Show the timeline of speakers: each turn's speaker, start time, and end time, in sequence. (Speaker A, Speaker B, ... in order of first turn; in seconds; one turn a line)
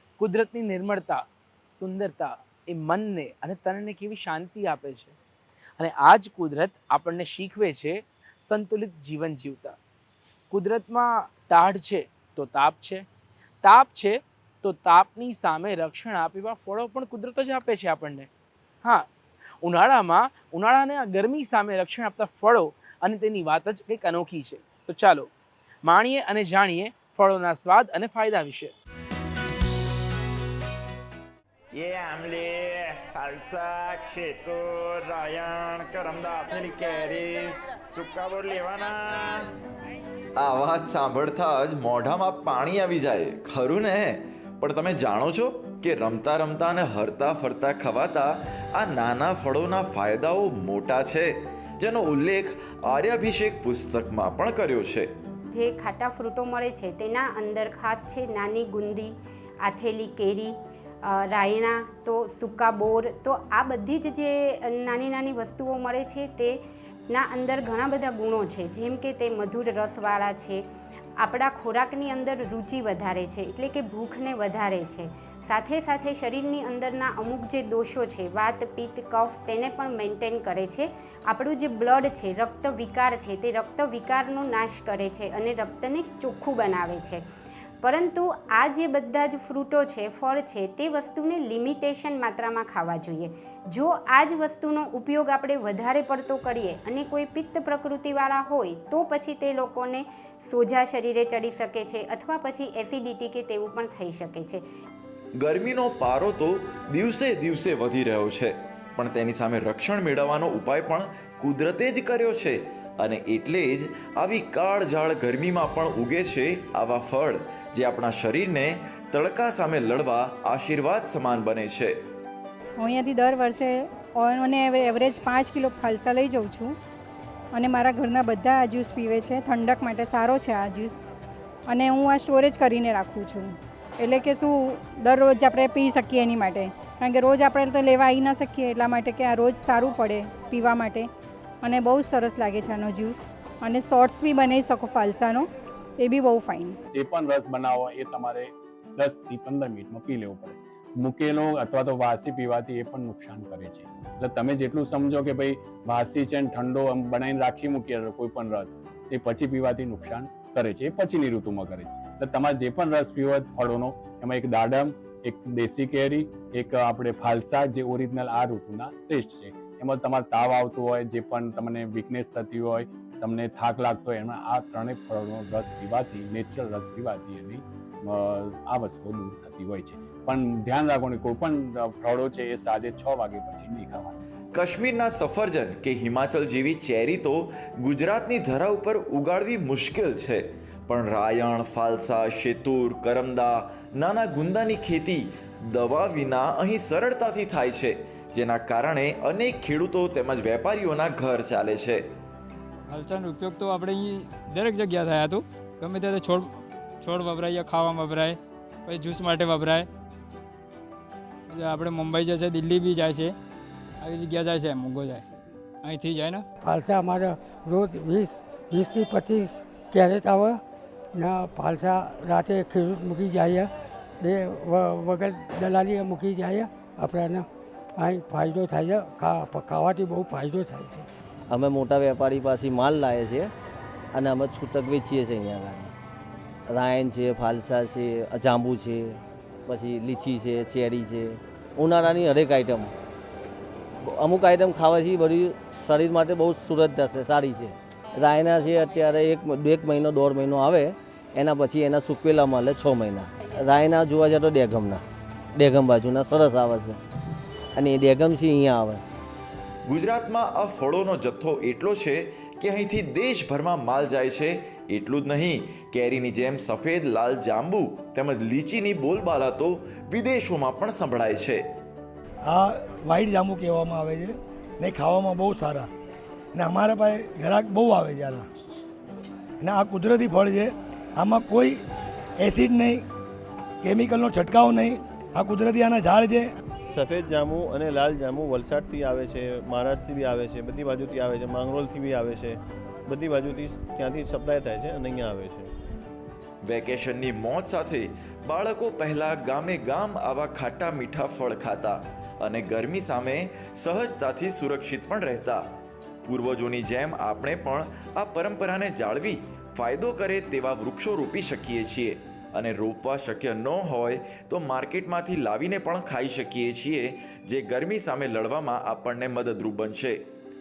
Speaker A: 0.2-5.1
Speaker A: 5.8-9.8
Speaker A: 10.5-13.1
Speaker A: 13.6-18.3
Speaker A: 19.6-25.3
Speaker A: 25.9-28.7
Speaker B: 31.7-39.5
Speaker C: 40.4-55.1
Speaker D: 55.5-66.6
Speaker D: 67.1-70.6
Speaker D: 71.2-87.2
Speaker D: 87.8-104.6
Speaker C: 105.4-122.0
Speaker E: 122.8-126.8
Speaker E: 127.5-131.1
Speaker E: 131.7-141.1
Speaker E: 141.6-146.8
Speaker F: 146.9-184.2
Speaker C: 184.6-202.0
Speaker G: 202.9-209.9
Speaker G: 211.5-213.4
Speaker G: 214.0-215.3
Speaker G: 215.8-216.5
Speaker H: 216.8-220.5
Speaker H: 221.3-223.6
Speaker H: 224.3-227.3
Speaker H: 228.1-230.9
Speaker I: 231.5-233.5
Speaker I: 234.1-235.9
Speaker I: 236.7-242.9
Speaker I: 244.0-255.0
Speaker I: 255.6-257.0
Speaker I: 257.8-259.0
Speaker C: 259.9-271.6
Speaker J: 272.5-275.9
Speaker J: 276.6-278.5
Speaker J: 279.6-281.8
Speaker J: 282.4-283.1
Speaker J: 283.8-286.5
Speaker K: 286.9-295.7
Speaker C: 296.6-305.6
Speaker C: 306.2-320.2